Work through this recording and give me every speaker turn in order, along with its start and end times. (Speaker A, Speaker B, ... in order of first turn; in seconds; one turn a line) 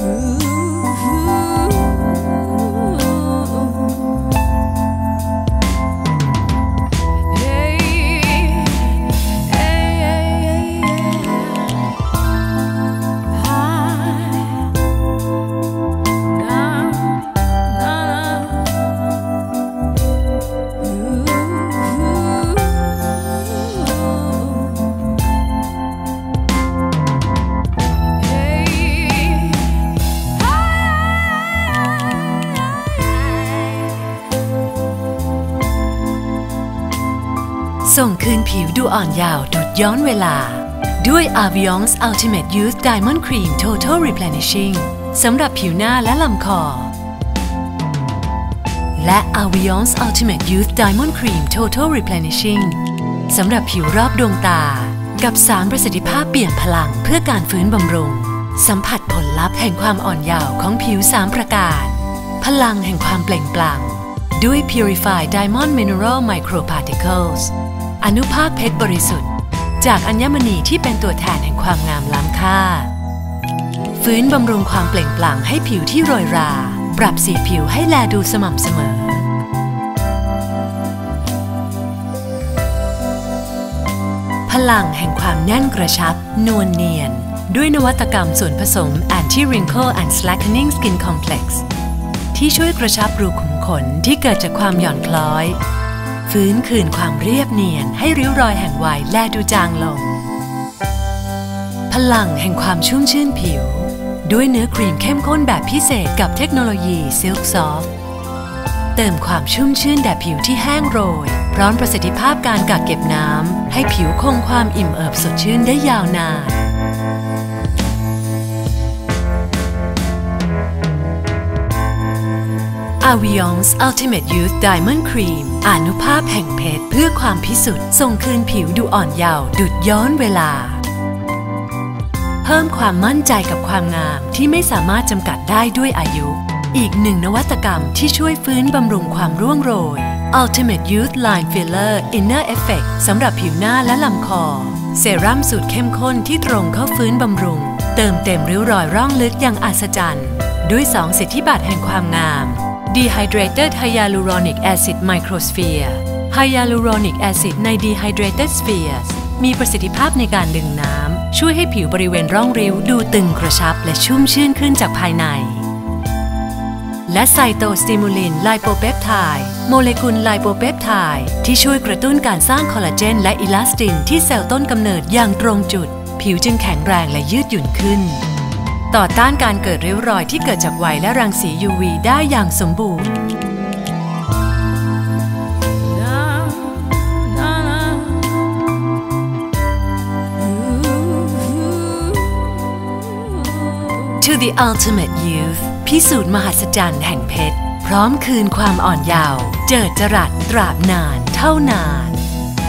Speaker A: 8.0-8.8
Speaker A: 10.2-10.6
Speaker A: 37.8-46.9
Speaker A: 48.9-72.9
Speaker A: 74.0-79.3
Speaker A: 84.5-91.6
Speaker A: 92.3-95.6
Speaker A: 96.2-100.2
Speaker A: 101.9-107.9
Speaker A: 108.9-116.7
Speaker A: 123.0-130.8
Speaker A: 132.4-165.7
Speaker A: 167.1-178.2
Speaker A: 178.9-183.2
Speaker A: 194.0-202.2